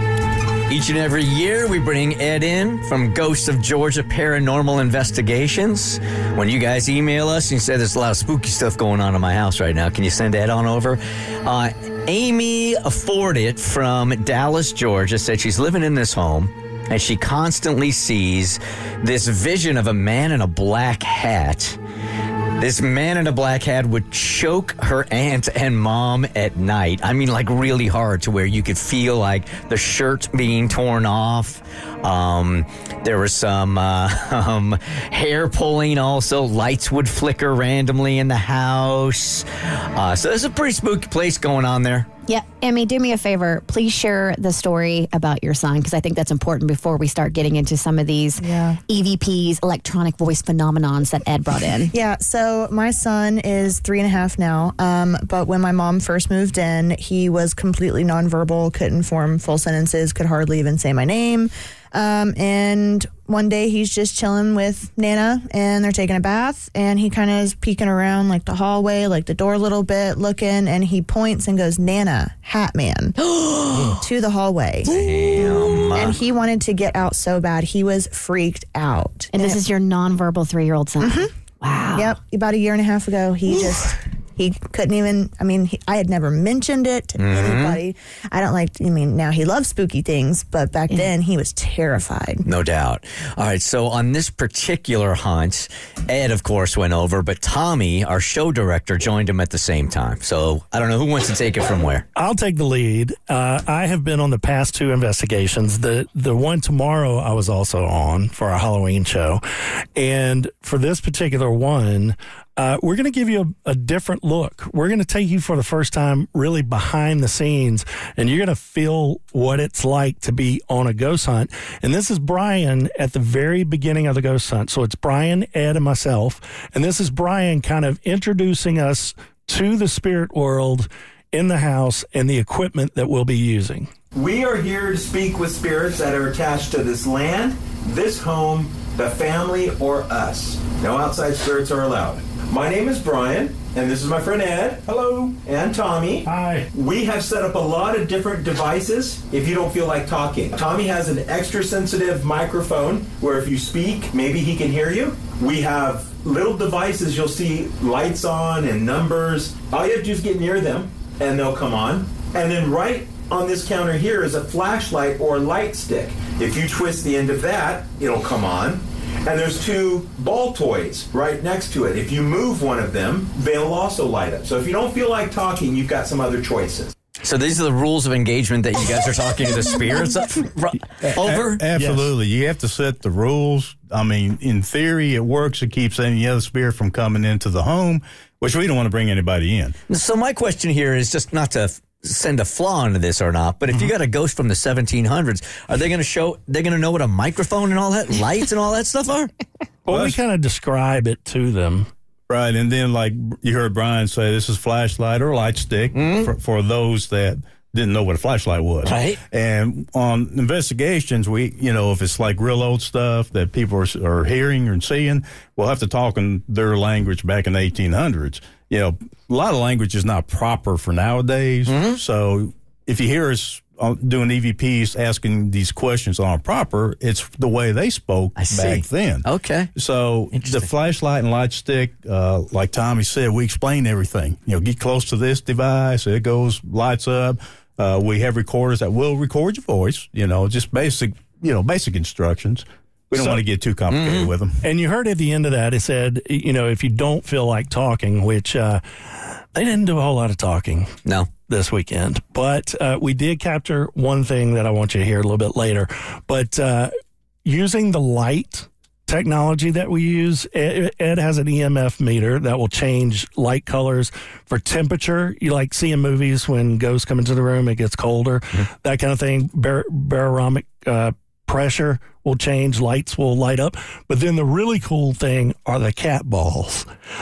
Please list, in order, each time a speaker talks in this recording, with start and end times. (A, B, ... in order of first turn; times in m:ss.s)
0:00.7-0:21.8 A
0:22.6-0:42.1 A
0:42.3-0:51.9 B
0:48.4-0:48.8 C
0:51.9-1:13.2 C
1:13.3-1:13.9 A
1:13.8-1:19.6 C
1:14.8-1:16.2 A
1:19.3-1:22.2 B
1:21.0-1:21.3 C
1:21.9-1:32.4 C
1:27.2-1:27.8 A
1:32.4-1:42.0 A
1:42.1-1:49.4 D
1:50.0-2:13.9 D
2:14.1-2:24.9 E
2:24.9-2:25.4 F
2:25.4-2:56.9 E
2:26.2-2:26.7 D
2:57.2-3:01.6 A
3:01.0-3:09.7 F
3:01.7-3:02.1 D
3:09.9-3:19.3 A
3:19.8-3:21.9 D
3:19.9-3:20.2 F
3:22.3-4:04.6 F
3:25.9-3:26.3 A
3:28.8-3:29.2 A
3:41.6-3:42.0 A
3:48.4-3:49.7 A
3:50.3-3:50.7 A
4:03.1-4:03.4 D
4:03.9-4:04.3 A
4:04.6-4:11.0 D
4:11.0-4:11.3 A
4:11.5-4:16.9 D
4:17.4-4:36.9 D